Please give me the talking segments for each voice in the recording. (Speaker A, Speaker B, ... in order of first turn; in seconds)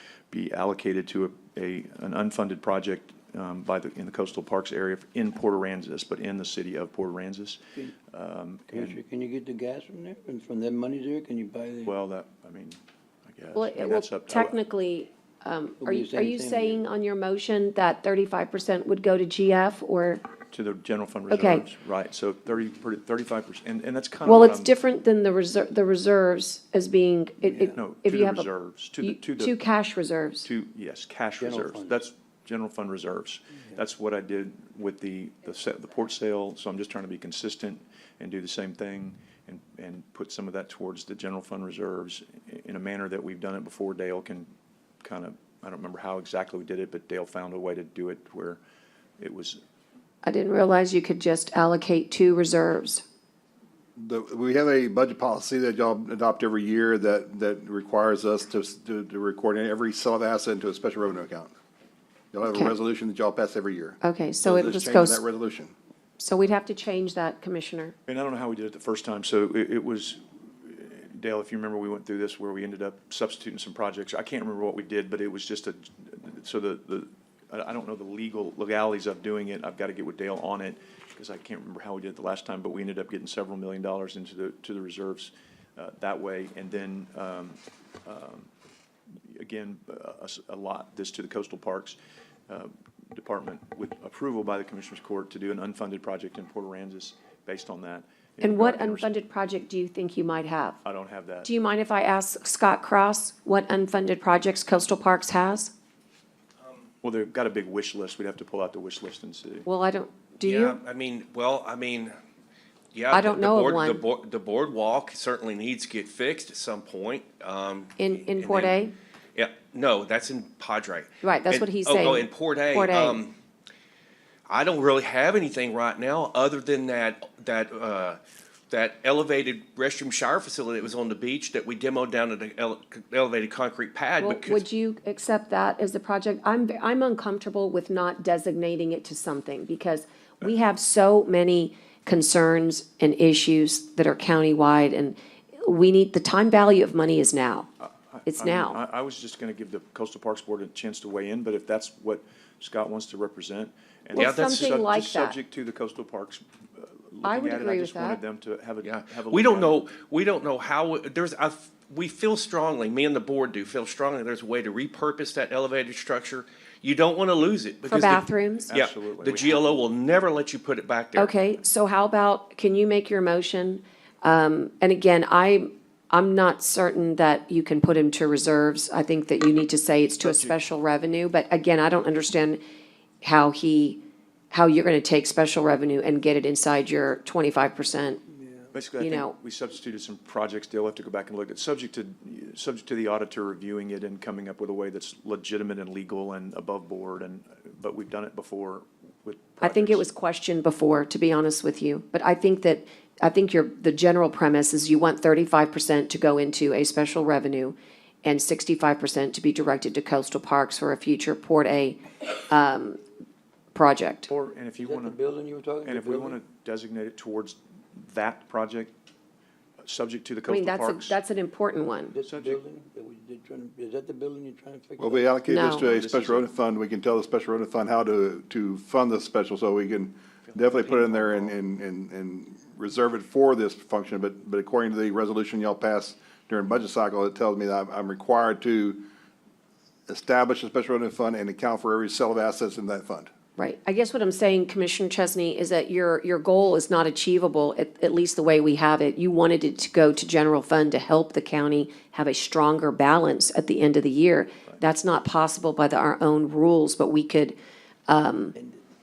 Speaker A: 0.3-9.0, 11.8-14.5, 20.5-24.7, 27.7-29.6, 30.4-44.5, 45.0-48.6, 49.2-49.6, 68.1-88.5, 89.3-92.0, 92.5-99.1, 100.8-101.5, 107.0-109.7, 147.8-159.8, 168.7-169.6, 180.2-180.6, 188.7-200.1, 214.3-215.2, 215.8-218.9, 219.8-221.2, 222.2-222.6, 225.7-226.5, 230.5-231.5
Speaker B: 8.7-11.9, 15.8-16.8, 31.4-32.0, 188.4-188.7, 214.8-216.4, 222.1-225.3, 258.6-258.8
Speaker C: 13.5-20.2, 21.3-21.6, 24.2-28.5, 29.0-30.5, 50.2-53.0, 64.0-65.2, 66.2-67.9, 98.4-100.8, 101.4-105.7, 109.7-110.8, 113.1-114.0, 118.0-118.9, 121.2-123.2, 134.2-147.7, 148.2-148.8, 154.1-155.4, 157.2-158.2, 167.8-168.7, 171.2-182.6, 183.2-188.2, 189.0-189.3, 199.6-213.0, 213.7-214.3, 220.5-222.2, 225.5-225.8, 243.6-257.6, 258.1-258.5
Speaker D: 54.0-61.5, 62.3-65.7, 225.0-239.0, 240.1-243.3
Speaker E: 110.4-112.1, 112.9-118.8, 119.3-123.3, 124.5-128.2, 128.7-134.6, 154.2-154.9, 158.8-171.3